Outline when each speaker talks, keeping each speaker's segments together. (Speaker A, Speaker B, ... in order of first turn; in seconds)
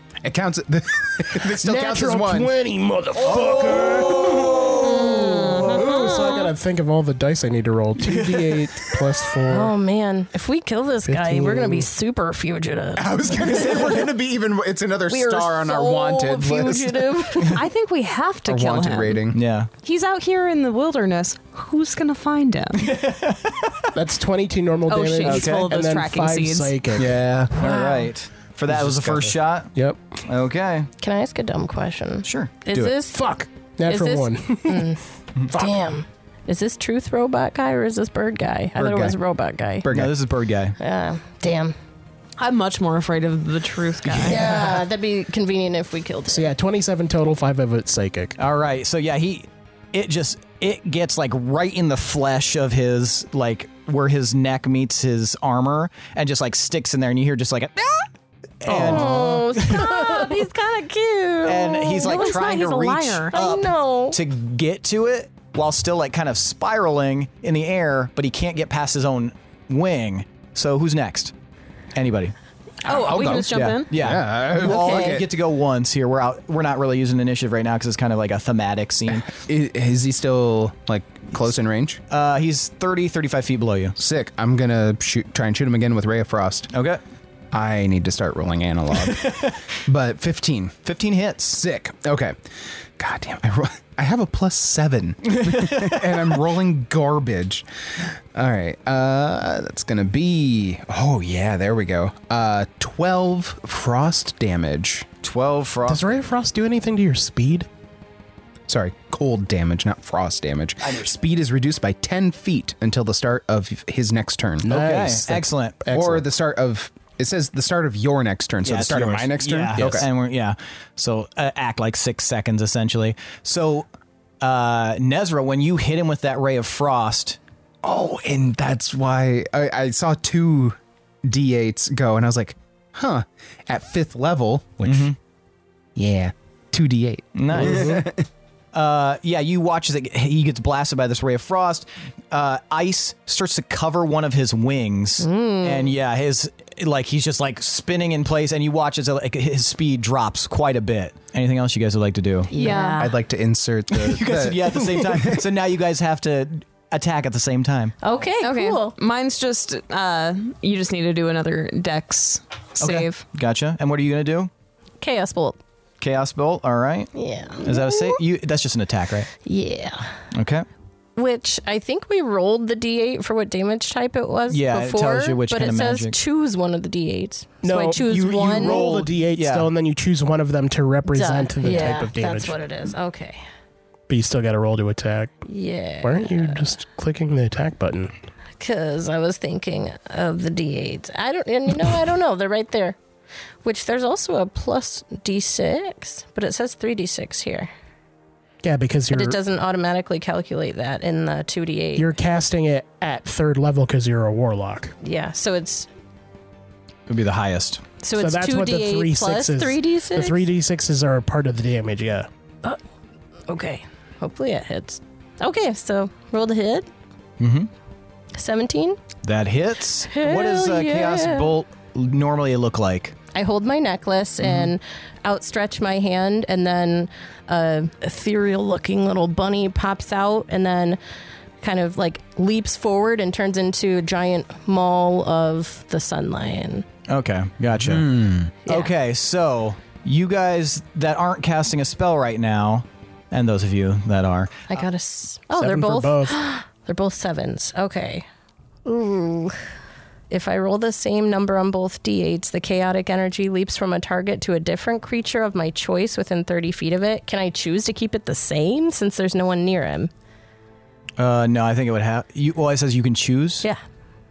Speaker A: 0.2-2.5, 3.5-4.5, 12.9-17.4, 18.4-19.4, 27.0-27.5, 28.7-29.3, 38.8-39.1, 39.8-40.1, 72.8-75.3, 79.3-82.0, 84.0-86.7, 87.5-90.7, 91.5-92.3, 93.0-105.1, 108.7-114.7, 115.9-120.1, 127.8-135.1, 135.9-138.2, 153.0-155.4, 237.8-238.5
Speaker B: 1.5-9.7, 11.1-11.9, 23.9-27.2, 33.1-34.9, 35.5-35.8, 46.3-48.4, 105.9-107.7, 114.6-116.2, 177.6-182.6, 184.1-185.4, 186.0-188.1, 198.6-199.4, 201.9-204.9, 208.2-212.3, 245.5-246.4
Speaker C: 3.3-5.3, 8.0-8.8, 19.3-19.7, 22.8-23.9, 25.3-25.5, 27.5-29.7, 30.2-30.9, 32.2-32.9, 39.9-40.8, 48.4-58.1, 58.6-60.4, 61.4-71.3, 71.9-72.3, 73.4-79.3, 82.1-83.9, 86.7-87.0, 89.0-89.6, 90.8-91.6, 95.3-96.3, 105.2-106.2, 110.8-111.1, 114.7-115.8, 118.6-123.8, 124.4-127.4, 134.8-135.2, 137.3-138.1, 138.7-152.5, 153.9-157.9, 162.8-164.5, 166.0-169.3, 170.3-170.7, 174.5-176.2, 178.1-179.7, 207.1-207.8, 217.4-217.7, 219.2-223.1, 224.4-224.7, 237.1-244.7, 261.2-263.6
Speaker D: 5.2-6.0, 9.5-14.1, 15.1-17.6, 27.6-28.1, 31.0-33.2, 33.9-35.0, 35.5-39.9, 40.8-41.7, 44.1-46.5, 58.7-62.5, 63.3-64.2, 74.7-75.0, 145.2-145.9, 152.5-153.1, 158.0-158.9, 165.0-165.6, 167.1-168.2, 169.4-170.1, 171.2-178.8, 181.1-183.4, 185.5-186.6, 188.6-193.0, 193.6-197.7, 199.1-202.1, 205.0-205.9, 208.0-210.4, 213.5-216.9, 218.4-219.0, 220.1-221.5, 223.3-231.0, 231.6-236.8, 244.7-248.2, 248.8-249.6, 250.3-260.1
Speaker E: 5.3-6.1, 17.5-19.2, 19.8-22.9, 24.9-26.8, 42.4-44.5, 62.0-63.3, 72.8-73.9, 152.5-153.1, 158.4-163.2